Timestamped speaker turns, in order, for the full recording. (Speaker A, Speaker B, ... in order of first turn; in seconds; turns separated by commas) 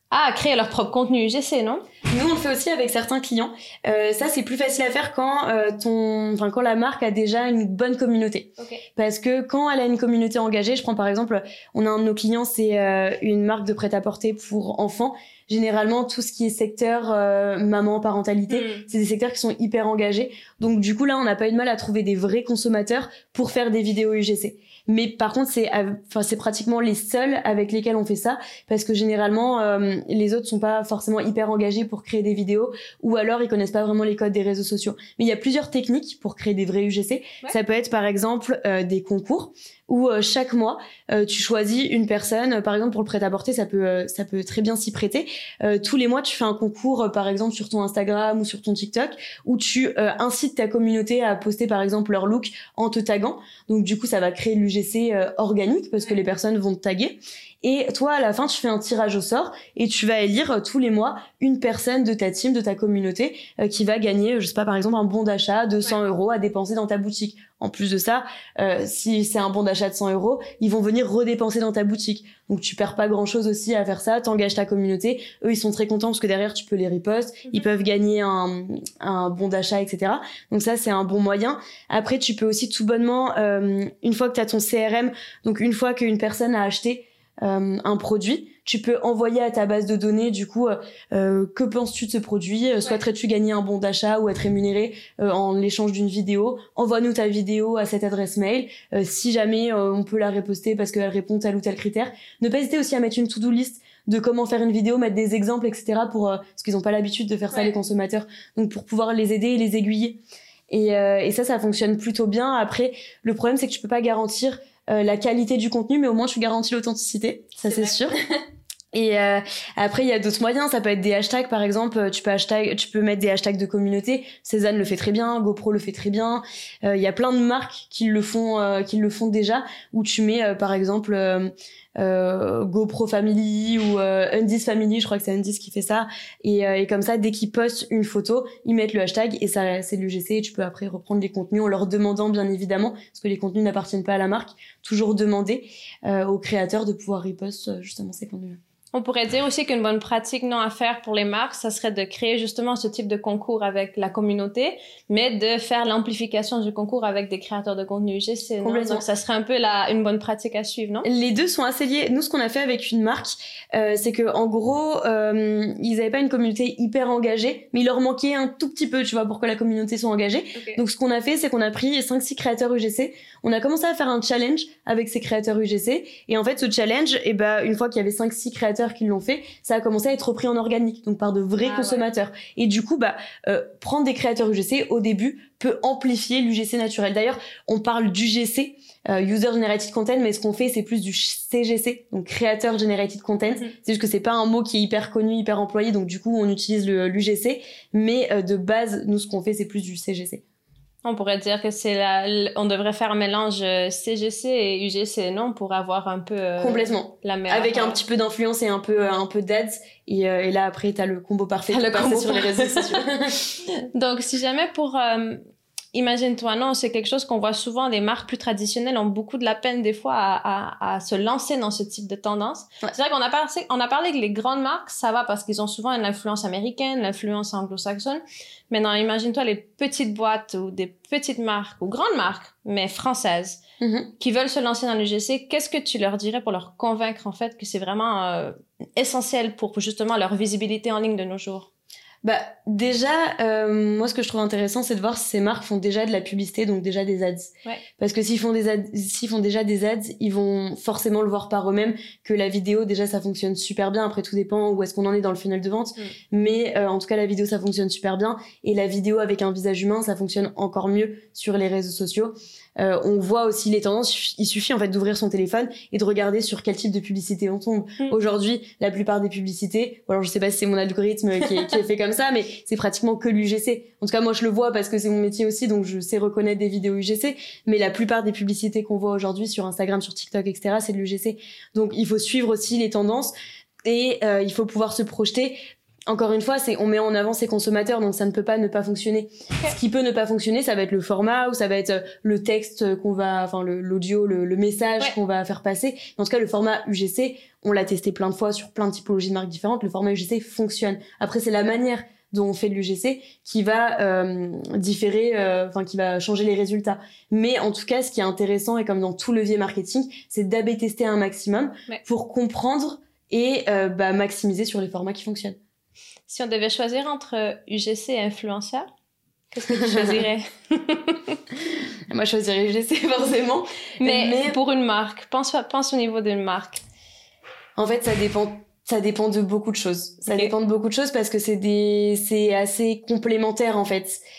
Speaker A: 0.1-1.9, Speaker B: 2.1-118.2, Speaker A: 18.5-18.8, Speaker A: 117.6-118.1, Speaker B: 118.9-148.6, Speaker A: 148.9-161.1, Speaker B: 158.6-159.0, Speaker B: 161.0-200.4, Speaker A: 170.5-170.8, Speaker A: 181.6-182.0, Speaker A: 201.0-208.0, Speaker B: 206.6-213.3, Speaker A: 211.7-215.4, Speaker A: 215.9-233.6, Speaker B: 233.8-234.1, Speaker A: 234.2-241.7, Speaker B: 242.2-283.3, Speaker A: 271.5-271.8, Speaker B: 283.8-315.6, Speaker A: 316.3-318.9, Speaker A: 319.5-321.4, Speaker B: 319.7-320.2, Speaker B: 322.1-324.6, Speaker A: 324.0-326.8, Speaker B: 327.8-334.2, Speaker A: 330.3-330.5